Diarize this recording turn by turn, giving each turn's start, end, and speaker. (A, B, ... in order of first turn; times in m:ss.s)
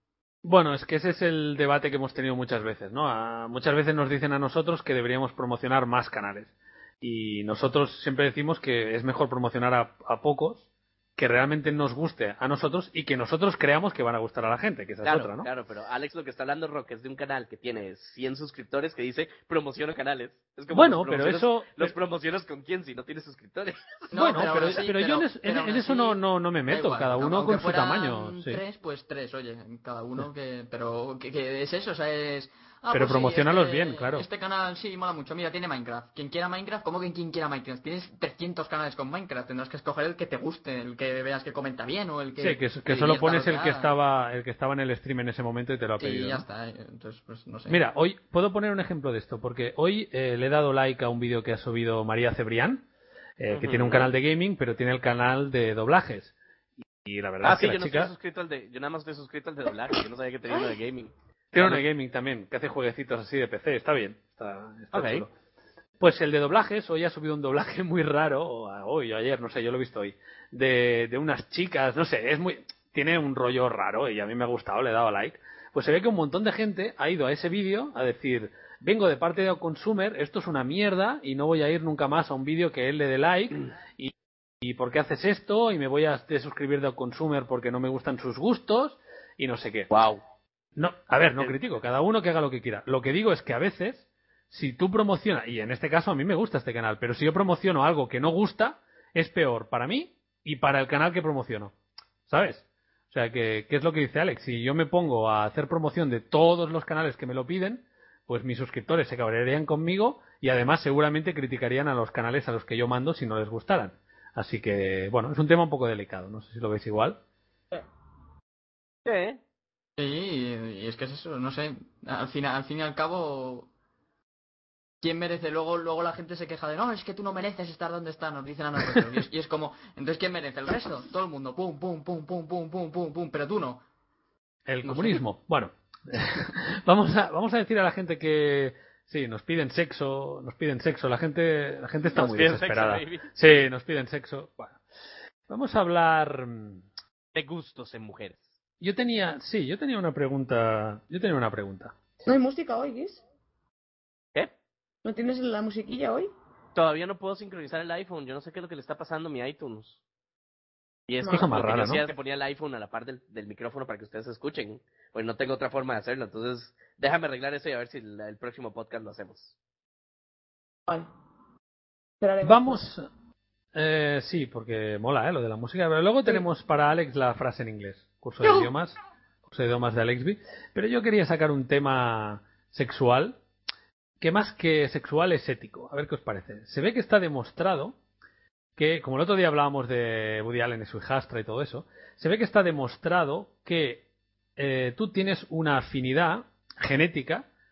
0:00.4-0:06.5 A
0:07.0-0:10.6 A
0:11.2-0:15.5 A
0:15.0-0:24.1 B
0:20.7-0:21.9 A
0:24.1-0:43.9 C
0:24.1-0:28.6 A
0:32.9-0:34.3 A
0:42.4-0:46.4 A
0:46.0-0:47.8 C
0:47.7-0:52.8 A
0:53.4-0:56.3 A
0:53.5-0:54.1 B
0:56.9-0:58.1 A
0:57.4-1:01.8 B
1:01.5-1:05.3 A
1:04.9-1:05.2 B
1:06.0-1:29.9 A
1:29.9-1:30.2 B
1:30.8-1:41.7 A
1:42.3-1:57.2 A
1:59.0-1:59.4 B
2:00.0-2:03.7 C
2:05.0-2:13.8 C
2:14.7-2:24.8 A
2:14.8-2:15.2 C
2:22.1-2:23.3 B
2:25.5-2:26.8 A
2:27.3-2:28.5 B
2:28.8-2:31.9 A
2:32.3-2:33.2 D
2:35.0-2:36.3 D
2:36.8-2:40.0 B
2:41.1-2:49.5 B
2:41.3-2:42.1 A
2:52.2-2:52.9 D
2:52.4-2:53.1 A
2:53.7-2:59.0 A
2:59.5-3:03.4 A
3:04.2-3:08.0 A
3:08.8-3:14.0 A
3:14.6-3:17.5 A